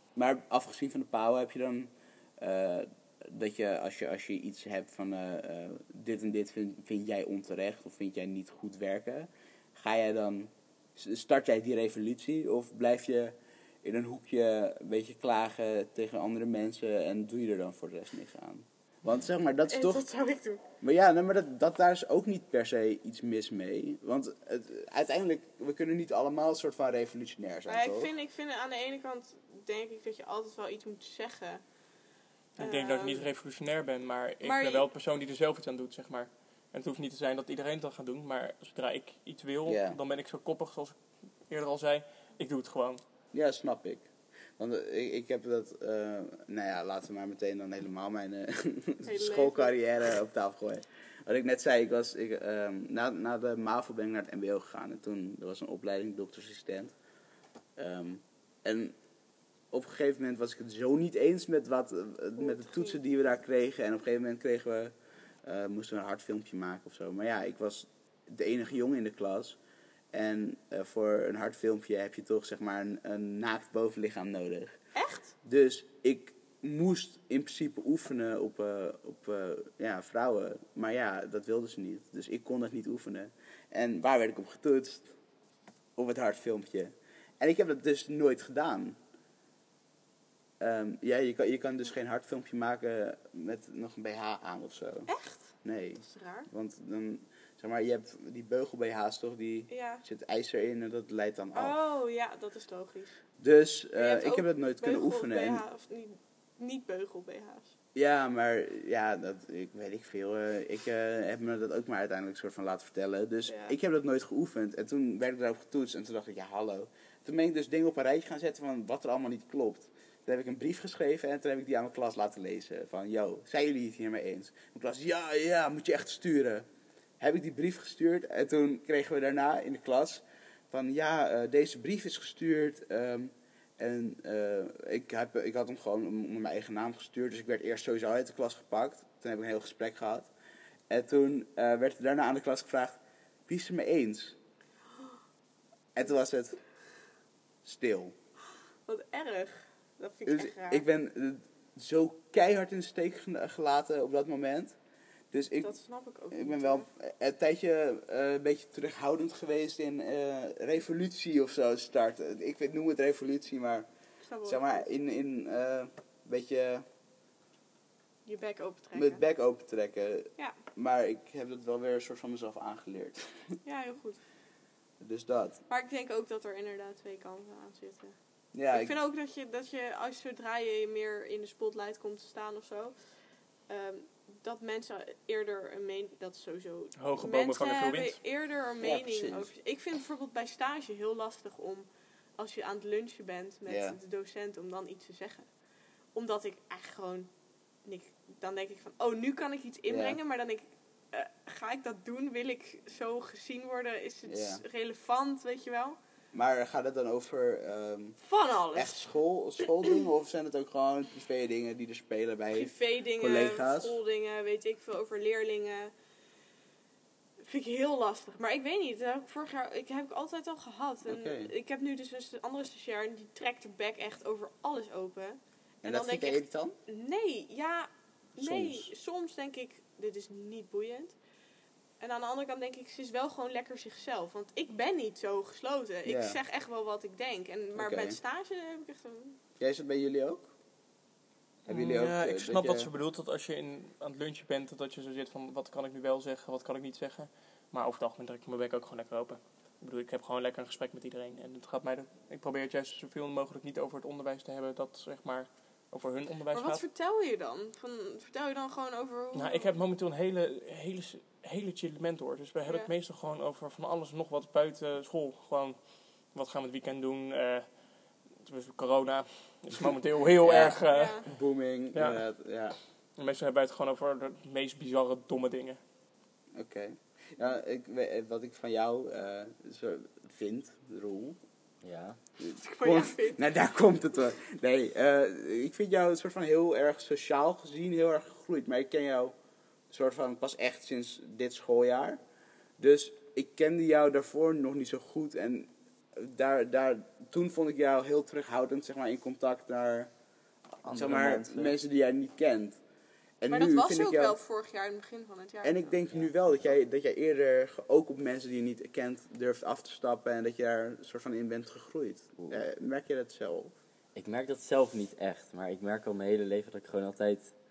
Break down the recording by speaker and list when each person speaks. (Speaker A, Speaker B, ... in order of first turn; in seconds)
Speaker A: 0.2-20.1, 20.8-28.1, 39.7-40.0, 43.3-44.0, 44.6-56.9, 57.8-59.0, 59.7-64.9, 65.4-69.6, 70.1-74.8, 75.4-85.1, 86.0-89.0, 90.6-95.1, 95.6-101.8, 103.4-105.6, 108.0-126.7, 127.2-140.3, 140.9-144.3, 145.9-146.6, 147.6-148.2, 150.3-154.8, 155.3-155.7, 156.3-163.9, 164.4-166.8, 168.9-173.2, 175.0-175.6, 178.5-178.9, 188.8-189.5, 193.7-194.0, 199.9-200.2, 204.3-204.6, 206.3-208.2, 208.7-214.0, 221.1-221.5, 225.8-226.8, 228.4-228.9, 236.1-236.4, 237.8-238.2, 239.6-240.5, 241.7-242.9, 270.4-272.8, 276.6-281.4, 282.4-289.3, 289.9-292.2, 292.8-300.1, 300.9-302.8, 303.4-304.4, 305.6-313.8
Speaker B: 19.7-20.6, 27.7-31.6, 32.6-33.2, 34.4-34.9, 49.1-49.7, 62.4-63.0, 75.0-75.3, 95.1-96.5, 99.7-100.0, 101.5-103.2, 104.0-107.7, 113.5-113.7, 148.9-150.8, 155.6-156.9, 164.2-164.9, 168.3-169.2, 173.7-174.2, 175.7-178.2, 178.7-182.9, 183.7-191.9, 192.4-195.5, 196.1-197.3, 197.8-206.0, 208.2-209.1, 212.5-215.9, 217.4-231.2, 232.0-239.4, 256.5-259.7, 270.9-271.2, 282.6-283.4, 303.5-305.9
Speaker C: 32.6-41.0, 41.5-43.0, 187.0-188.2, 241.7-256.8, 259.4-265.8, 266.3-267.7, 268.4-271.2, 271.9-272.2, 273.2-275.8
Speaker D: 281.8-282.2, 300.8-301.8, 314.1-317.5